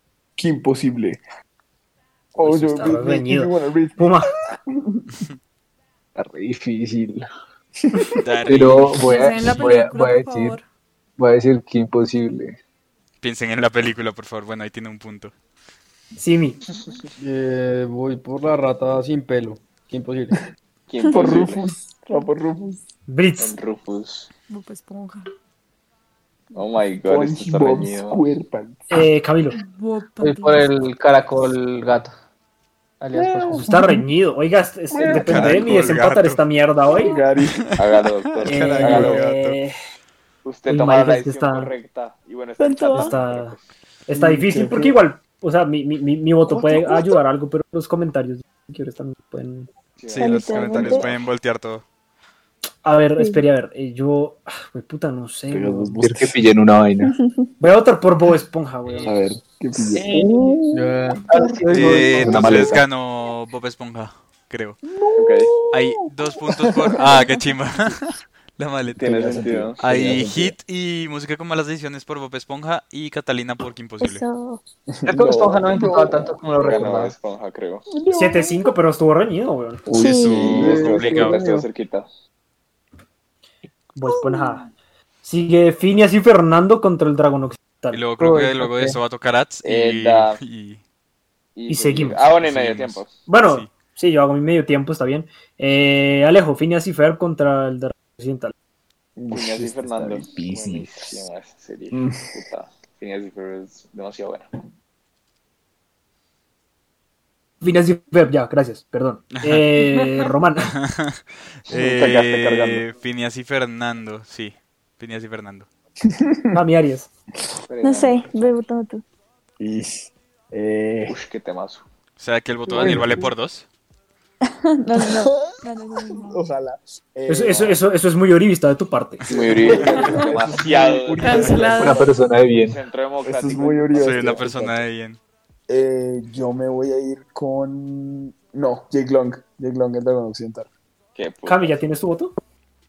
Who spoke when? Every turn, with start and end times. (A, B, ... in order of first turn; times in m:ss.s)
0:00.4-0:01.2 A
0:02.4-0:05.0 A
0:02.4-0:04.3 B
0:06.2-0:07.2 C
0:07.9-0:08.2 A
0:08.2-0:09.1 D
0:08.5-0:10.6 C
0:09.0-0:10.6 E
0:11.2-0:12.6 C
0:13.2-0:15.3 D
0:16.2-0:16.6 B
0:17.2-0:20.5 F
0:20.9-0:21.7 G
0:21.1-0:22.8 A
0:23.1-0:23.6 B
0:23.4-0:24.3 G
0:24.5-0:25.3 E
0:26.5-0:28.2 G
0:27.0-0:28.9 A
0:28.9-0:29.6 B
0:29.6-0:30.7 E
0:30.2-0:32.1 H
0:33.0-0:33.7 H
0:33.1-0:34.0 A
0:33.5-0:37.2 B
0:34.9-0:35.9 A
0:35.1-0:36.4 D
0:36.9-0:37.7 A
0:37.8-0:39.3 G
0:37.8-0:39.6 D
0:38.4-0:39.8 B
0:40.4-0:43.6 G
0:40.7-0:41.7 B
0:42.6-0:43.1 I
0:42.9-0:49.7 B
0:44.1-0:45.0 A
0:46.5-0:47.2 I
0:50.0-0:51.2 G
0:50.1-0:51.8 D
0:50.2-0:51.1 I
0:52.8-0:56.0 B
0:53.2-0:53.4 I
0:55.5-0:56.4 A
0:56.0-0:57.2 C
0:57.0-0:57.5 I
0:57.6-0:59.2 B
0:58.9-0:59.2 G
0:59.0-1:00.5 A
0:59.9-1:00.5 G
1:00.1-1:00.7 I
1:00.7-1:02.0 F
1:01.3-1:02.4 H
1:01.4-1:02.3 A
1:01.7-1:04.8 D
1:02.1-1:02.9 C
1:04.9-1:07.0 A
1:05.2-1:05.6 G
1:05.7-1:14.2 D
1:07.0-1:07.4 I
1:08.9-1:09.8 G
1:09.0-1:10.6 A
1:14.0-1:14.6 I
1:15.0-1:16.9 A
1:15.1-1:17.2 H
1:15.8-1:17.9 G
1:17.9-1:18.8 A
1:18.1-1:19.9 B
1:19.9-1:21.4 A
1:19.9-1:20.7 I
1:20.0-1:20.9 D
1:20.0-1:22.1 G
1:20.4-1:21.7 F
1:24.0-1:24.7 B
1:24.1-1:24.6 I
1:25.2-1:28.0 B
1:27.9-1:30.8 D
1:28.2-1:29.0 H
1:29.6-1:30.4 G
1:31.6-1:33.2 G
1:31.7-1:32.2 B
1:32.4-1:33.7 D
1:33.3-1:38.5 B
1:39.2-1:41.2 A
1:39.3-1:44.5 G
1:41.9-1:42.3 A
1:47.6-1:50.8 B
1:50.0-1:50.3 E
1:50.8-1:55.7 D
1:51.7-1:52.9 G
1:56.0-1:56.6 A
1:56.5-1:57.1 B
1:57.7-1:58.6 G
1:57.8-1:59.0 I
1:59.6-2:01.2 A
2:01.1-2:01.8 G
2:02.2-2:03.7 D
2:02.7-2:03.3 F
2:02.8-2:03.0 A
2:02.8-2:03.2 C
2:04.5-2:06.4 I
2:05.0-2:05.4 A
2:06.1-2:07.8 A
2:07.3-2:09.3 B
2:09.3-2:11.7 G
2:09.3-2:11.6 A
2:09.7-2:12.0 F
2:10.0-2:10.2 E
2:11.2-2:12.2 E
2:11.2-2:11.5 I
2:11.7-2:12.8 C
2:12.6-2:14.4 G
2:13.2-2:14.8 A
2:14.0-2:15.2 D
2:15.7-2:20.7 A
2:21.2-2:21.8 G
2:21.5-2:22.4 B